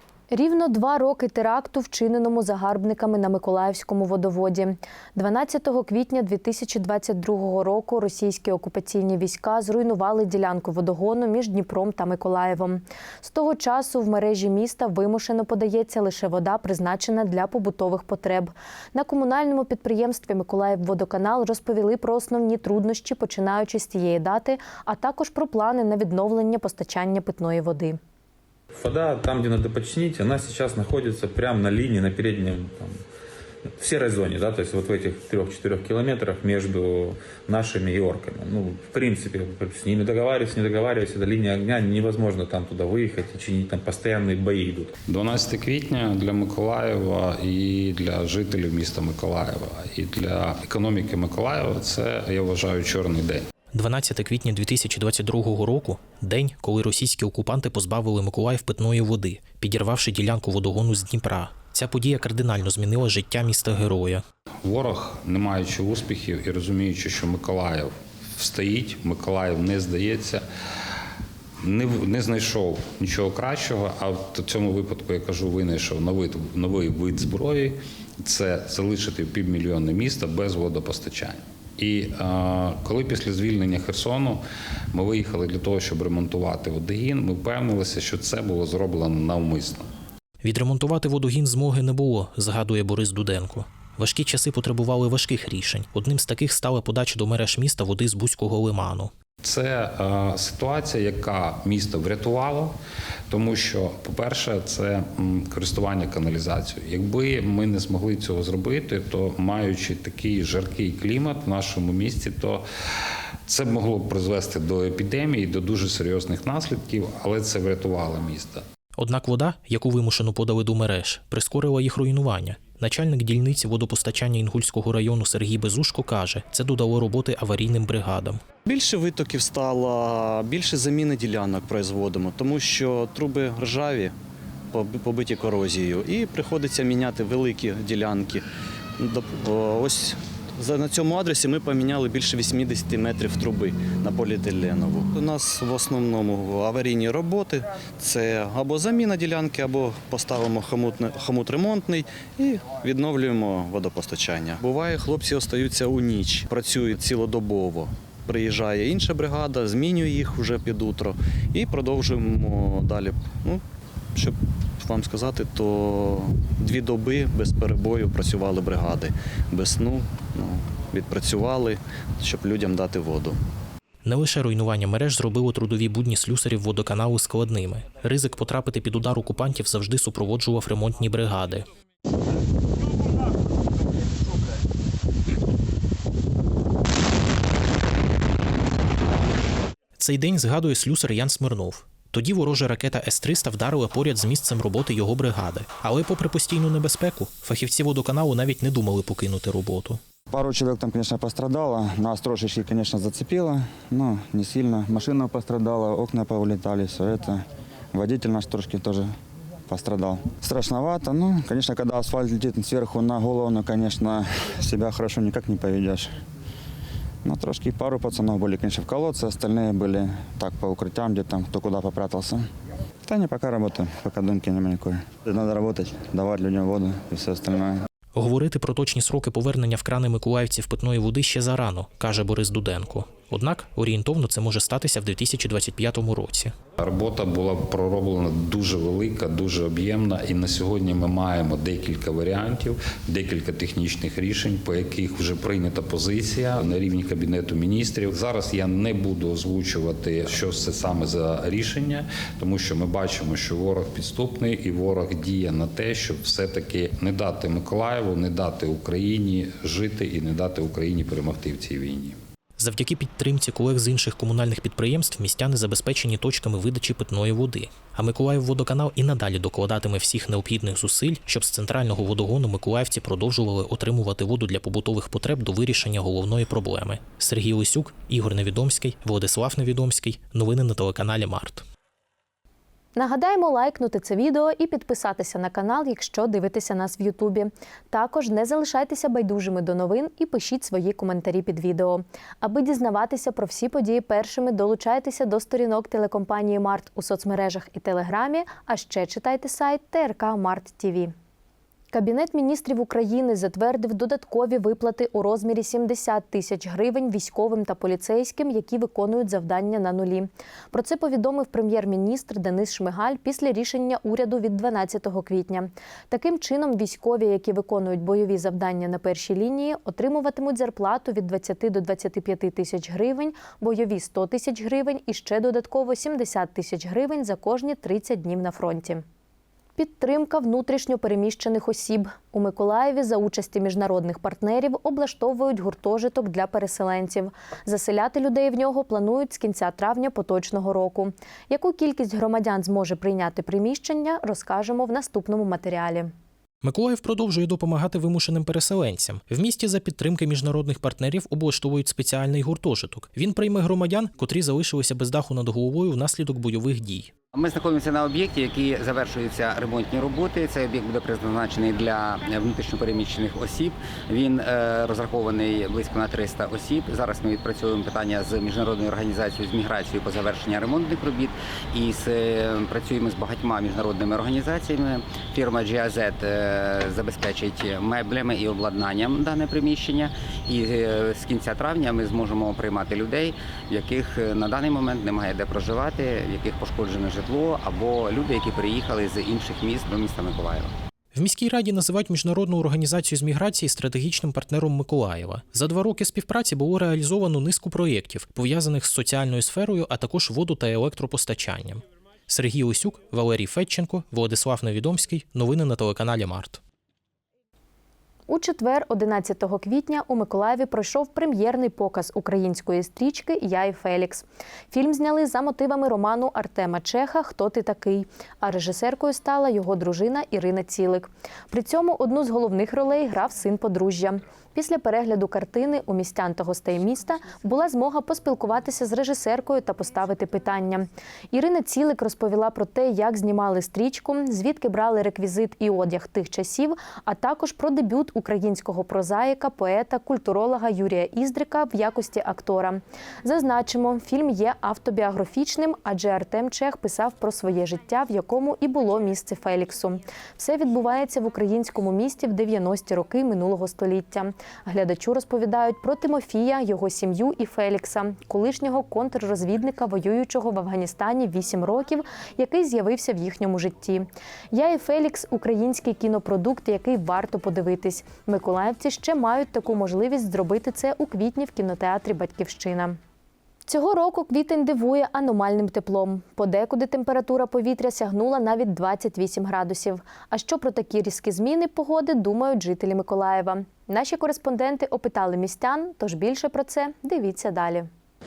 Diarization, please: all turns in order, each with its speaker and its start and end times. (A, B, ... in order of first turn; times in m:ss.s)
0:00.3-0:28.0 A
0:28.7-0:33.0 B
0:33.8-0:44.9 B
0:45.1-0:53.4 C
0:53.7-1:04.2 D
1:04.6-1:10.4 C
1:11.6-1:29.9 C
1:30.4-1:39.1 D
1:39.4-1:42.7 C
1:43.3-1:52.6 C
1:53.5-1:58.6 C
1:59.0-2:08.4 D
2:08.6-2:14.1 E
2:14.7-2:18.4 E
2:19.0-2:43.6 E
2:44.1-2:53.4 E
2:54.0-3:01.6 D
3:10.0-3:20.0 D
3:20.3-3:29.1 F
3:29.7-3:36.1 F
3:37.2-3:42.4 F
3:43.0-3:47.8 F
3:48.1-3:56.5 D
3:56.8-4:22.2 C
4:22.6-4:41.6 D
4:43.0-5:01.1 A
5:01.9-5:29.0 A
5:29.8-5:46.1 A
5:46.6-5:57.1 D
5:57.3-6:30.7 G
6:31.1-6:46.6 D
6:48.3-7:53.0 A
7:53.7-8:07.9 A